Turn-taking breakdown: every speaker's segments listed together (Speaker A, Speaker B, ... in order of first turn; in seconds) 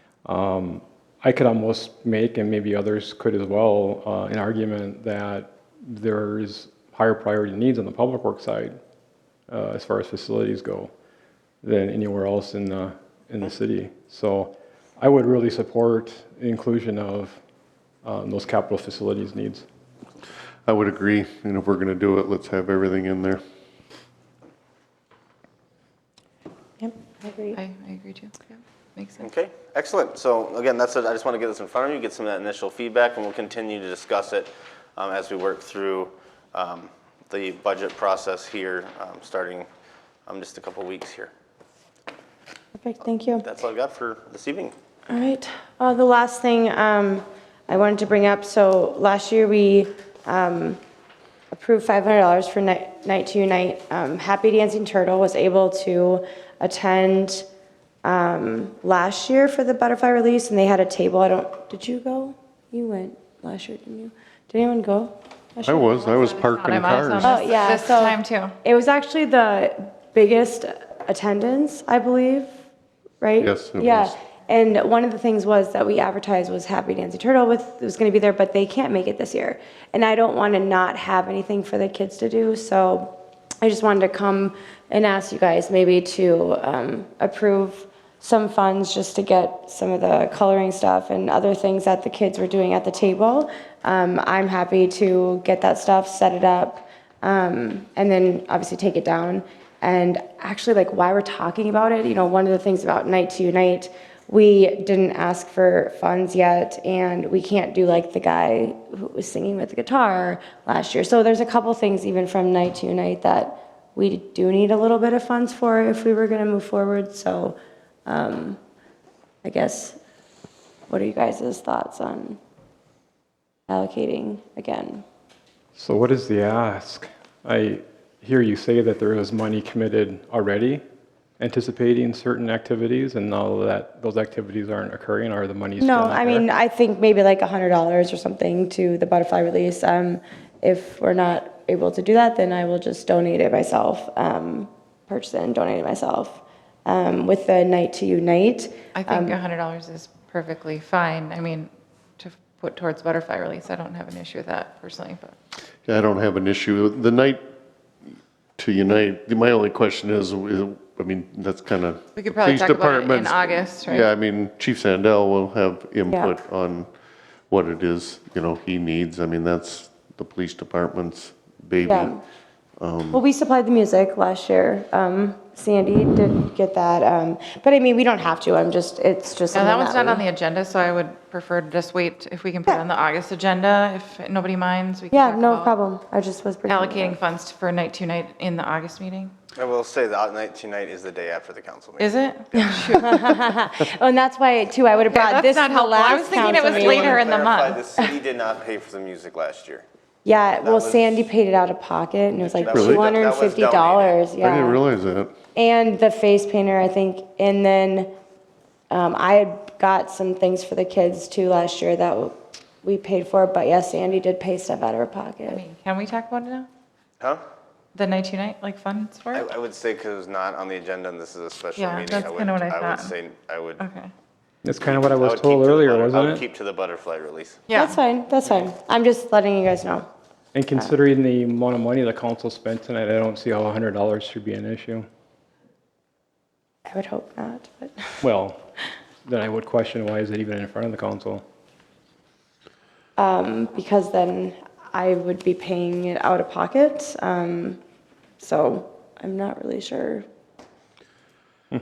Speaker A: 0.2-8.8, 9.5-10.9, 11.6-17.4, 18.0-19.6, 125.8-130.8, 131.4-136.5, 224.6-226.4, 230.5-235.1, 238.2-238.6, 239.2-241.4
Speaker B: 20.7-23.4, 65.6-67.6, 73.4-74.1, 155.9-157.4, 158.6-166.9, 167.5-172.2, 172.8-173.2, 202.7-203.1, 204.4-205.3
Speaker C: 26.8-27.6, 42.8-43.5, 45.1-50.8, 51.5-57.5, 58.0-65.9, 67.2-72.5, 73.2-118.6, 119.4-120.0, 120.9-122.4, 123.7-125.0, 135.8-149.4, 171.9-172.2, 173.1-180.2, 185.1-187.2, 192.6-197.3, 200.2-204.8, 205.5-208.1, 208.9-215.6, 227.7-230.1, 236.9-238.2, 243.2-247.8, 248.4-250.3
Speaker D: 27.5-29.3, 66.5-68.5, 148.9-155.3, 162.2-164.1, 179.5-185.7, 186.7-189.3, 192.0-193.2, 195.1-197.8, 215.5-216.7, 217.9-219.5, 221.8-223.1, 223.8-224.1, 227.7-228.0
Speaker E: 29.2-39.7, 40.3-41.3, 43.4-44.8, 189.6-192.7, 196.2-199.8, 200.6-201.2, 202.5-204.3, 219.3-223.8, 224.8-227.7